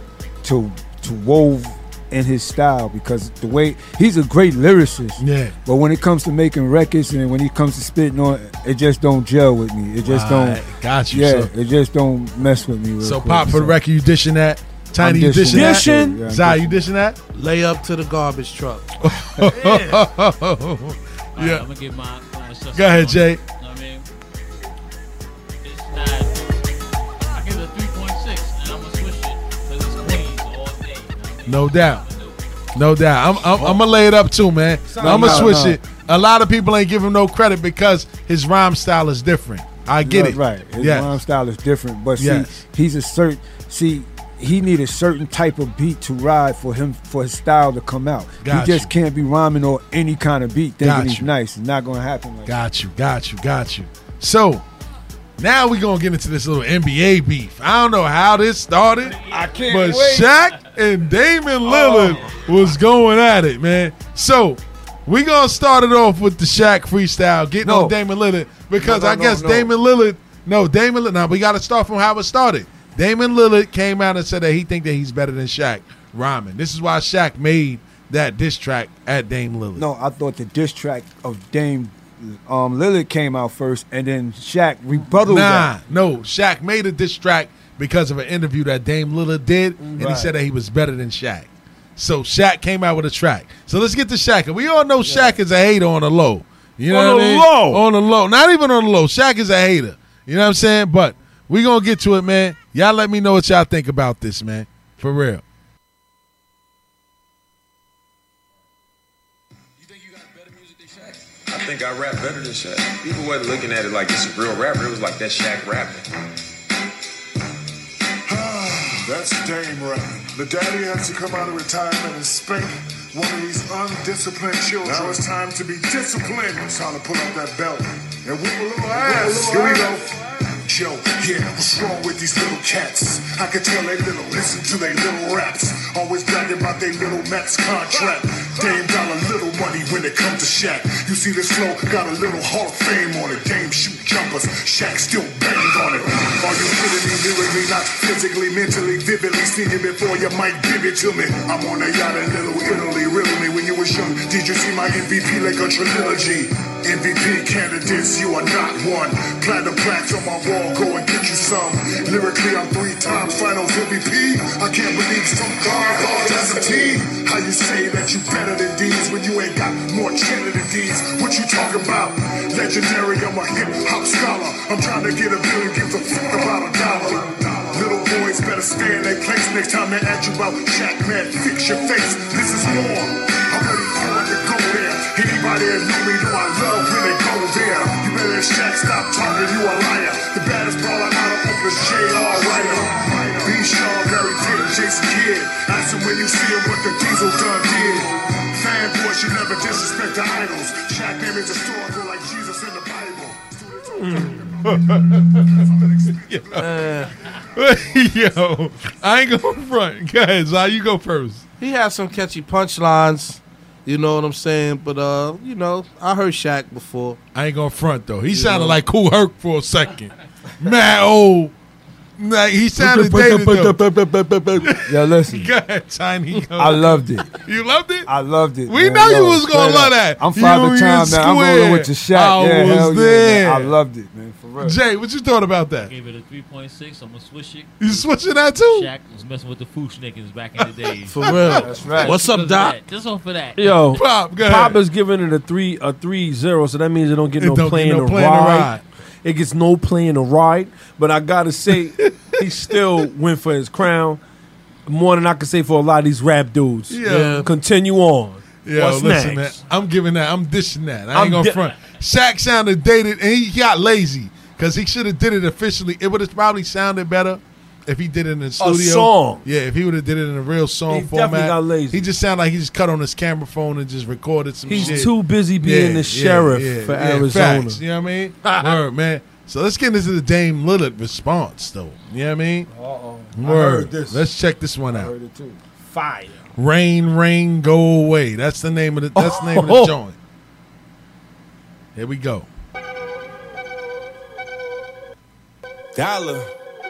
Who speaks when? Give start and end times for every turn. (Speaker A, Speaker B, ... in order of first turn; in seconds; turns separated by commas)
Speaker A: 0.4-13.8, Speaker B: 5.2-5.5, Speaker B: 10.0-11.5, Speaker B: 13.0-17.2, Speaker A: 15.0-16.9, Speaker C: 15.5-16.2, Speaker D: 17.3-18.9, Speaker B: 19.0-21.6, Speaker E: 21.4-24.1, Speaker B: 22.7-23.4, Speaker E: 25.6-26.4, Speaker E: 27.2-32.4, Speaker B: 31.5-32.0, Speaker B: 32.8-41.2, Speaker C: 34.9-35.6, Speaker A: 35.0-35.8, Speaker A: 40.0-52.5, Speaker B: 42.2-42.6, Speaker B: 48.4-48.9, Speaker B: 50.8-51.3, Speaker B: 52.5-54.6, Speaker B: 55.4-79.8, Speaker E: 59.2-59.7, Speaker A: 59.3-60.3, Speaker A: 61.6-62.2, Speaker A: 67.6-68.0, Speaker A: 68.8-69.7, Speaker A: 79.8-85.7, Speaker B: 85.2-105.4, Speaker C: 89.8-90.3, Speaker A: 90.0-90.3, Speaker C: 95.0-95.3, Speaker C: 96.9-97.8, Speaker F: 111.5-116.0, Speaker G: 118.3-206.5, Speaker C: 204.0-205.0, Speaker B: 206.3-206.9, Speaker D: 206.6-207.1, Speaker B: 207.5-211.4, Speaker D: 211.6-217.2, Speaker B: 217.3-221.5, Speaker B: 222.2-223.8, Speaker A: 222.8-225.5, Speaker C: 222.9-224.4, Speaker B: 224.6-228.1, Speaker A: 226.6-227.3, Speaker A: 228.1-234.8, Speaker B: 228.7-233.8, Speaker B: 234.6-235.9, Speaker E: 235.8-238.1, Speaker B: 237.8-238.9, Speaker E: 238.7-243.9, Speaker D: 241.1-242.8, Speaker B: 241.3-241.5, Speaker A: 241.6-242.2, Speaker C: 243.6-248.7, Speaker B: 243.9-244.8, Speaker B: 247.4-248.8, Speaker C: 249.2-254.2, Speaker B: 252.0-252.8, Speaker C: 254.9-259.6, Speaker B: 256.9-257.5, Speaker D: 257.1-257.4, Speaker B: 258.6-282.7, Speaker C: 261.1-261.7, Speaker C: 268.6-269.4, Speaker C: 270.9-272.1, Speaker C: 274.7-277.8, Speaker C: 278.4-278.8, Speaker A: 282.7-284.3, Speaker B: 283.4-285.1, Speaker A: 284.9-285.6, Speaker C: 285.9-286.4, Speaker B: 286.6-290.2, Speaker C: 289.1-289.9, Speaker B: 291.9-292.5, Speaker F: 295.9-296.5